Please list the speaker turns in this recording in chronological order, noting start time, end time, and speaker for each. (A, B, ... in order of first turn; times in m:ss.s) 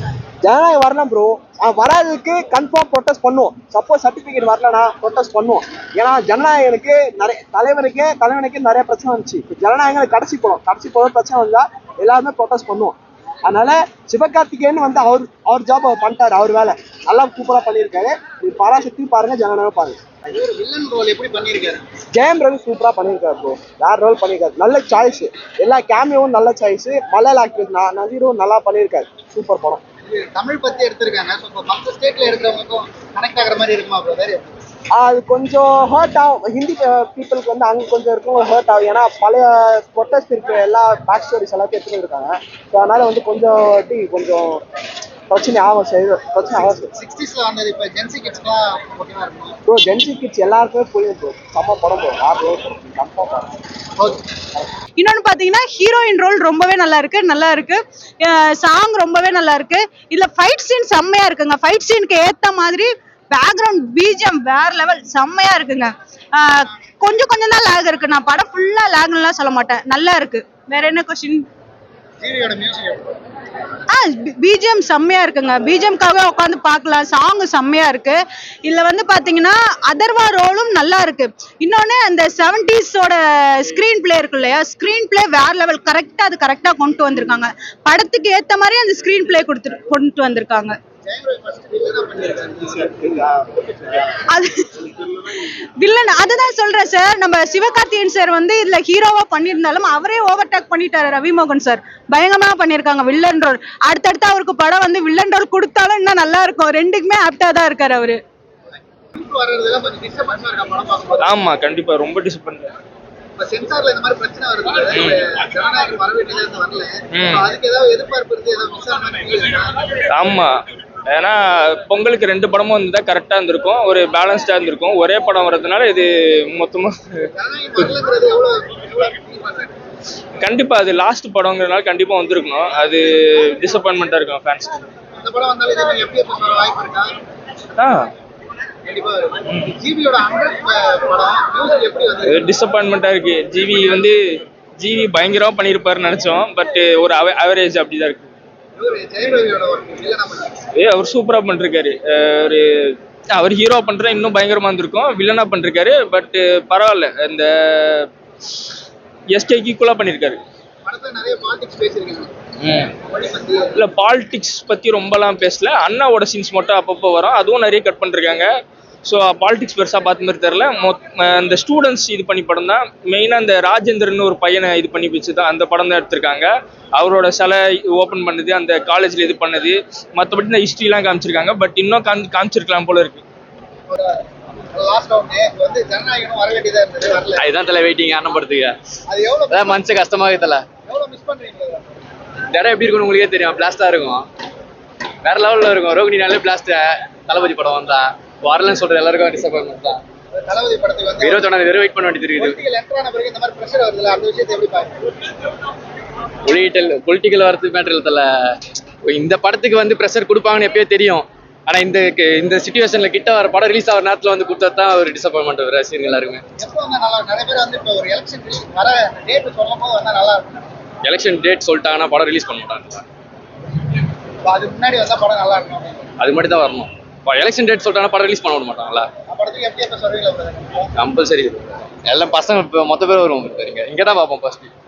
0:00.4-0:20.0 A
0:20.3-0:21.8 B
0:22.1-0:29.8 A
0:30.0-0:34.5 B
0:35.0-0:44.6 A
0:45.3-0:46.9 A
0:46.9-0:49.6 B
0:49.6-0:53.5 A
0:55.0-1:11.4 C
1:12.2-1:13.2 B
1:13.9-1:30.7 C
1:31.0-1:33.4 B
1:34.3-1:34.7 C
1:35.8-1:48.2 C
1:49.1-1:51.4 B
1:51.2-1:52.7 D
1:53.4-1:59.8 B
1:54.9-1:55.2 D
1:57.2-1:57.4 D
2:00.1-2:07.2 D
2:07.3-2:09.8 B
2:10.4-2:14.8 D
2:15.2-2:17.1 B
2:17.8-2:18.1 D
2:18.8-2:22.5 B
2:22.3-2:24.2 D
2:24.8-2:28.3 D
2:28.8-2:30.5 B
2:30.7-2:38.1 D
2:39.3-2:40.4 D
2:40.8-2:42.3 B
2:42.6-2:42.9 D
2:43.0-2:43.8 B
2:43.8-2:48.5 D
2:49.0-3:03.2 D
3:04.7-3:07.5 B
3:07.4-3:08.8 E
3:09.1-3:10.1 B
3:09.5-3:10.6 E
3:10.8-3:12.0 B
3:12.5-3:14.2 E
3:15.2-3:20.0 E
3:20.3-3:21.6 B
3:21.2-3:22.6 E
3:22.3-3:25.0 B
3:26.4-3:28.3 E
3:29.0-3:36.4 E
3:36.6-3:40.7 B
3:41.0-3:43.0 E
3:44.4-3:46.1 B
3:46.2-3:49.1 E
3:49.3-3:50.9 B
3:51.0-3:54.7 E